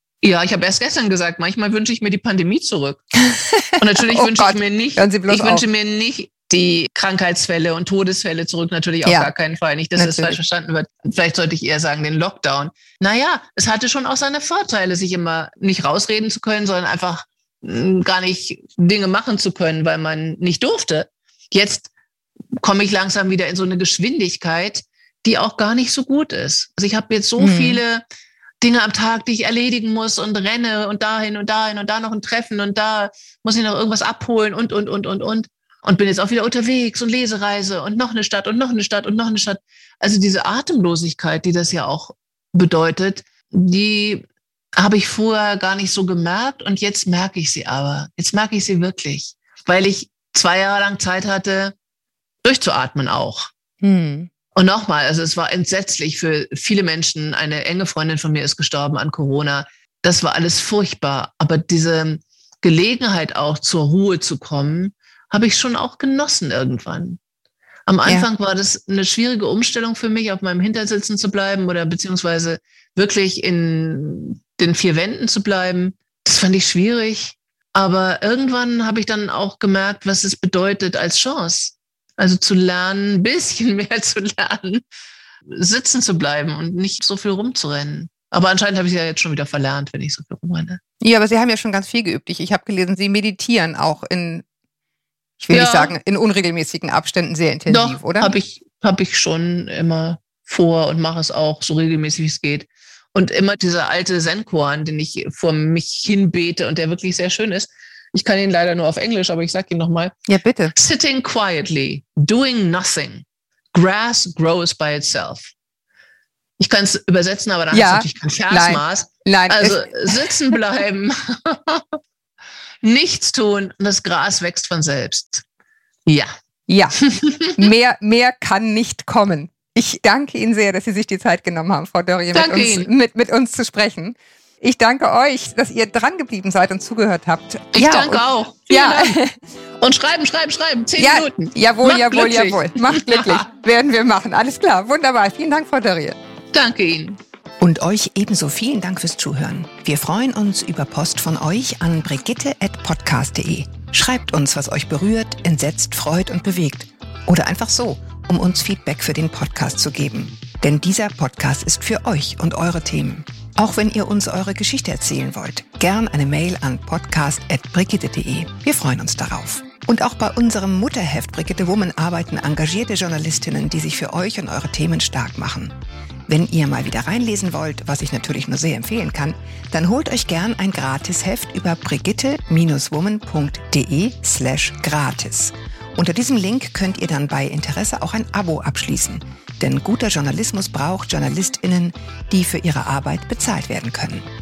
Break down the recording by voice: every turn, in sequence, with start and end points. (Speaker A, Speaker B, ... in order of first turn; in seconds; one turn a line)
Speaker A: 0.2-3.0
Speaker B: 3.2-5.7
Speaker A: 3.8-21.9
Speaker B: 9.0-9.3
Speaker B: 10.0-10.4
Speaker A: 22.6-28.0
Speaker B: 27.4-27.8
Speaker A: 28.6-44.2
Speaker A: 44.8-51.8
Speaker A: 52.4-53.5
Speaker B: 53.8-54.3
Speaker A: 54.5-67.2
Speaker A: 67.9-84.8
Speaker A: 85.5-90.8
Speaker B: 91.0-94.5
Speaker B: 95.4-98.3
Speaker A: 95.5-95.9
Speaker A: 97.7-110.1
Speaker B: 110.3-110.7
Speaker A: 110.7-115.5
Speaker A: 116.6-122.0
Speaker B: 117.7-120.3
Speaker A: 122.8-125.5
Speaker A: 126.1-126.3
Speaker B: 126.7-127.0
Speaker A: 127.0-127.6
Speaker B: 127.5-139.3
Speaker A: 132.3-132.9
Speaker A: 137.7-139.2
Speaker A: 139.8-143.4
Speaker B: 141.0-146.2
Speaker A: 146.5-147.2
Speaker B: 147.6-175.7
Speaker B: 176.3-194.3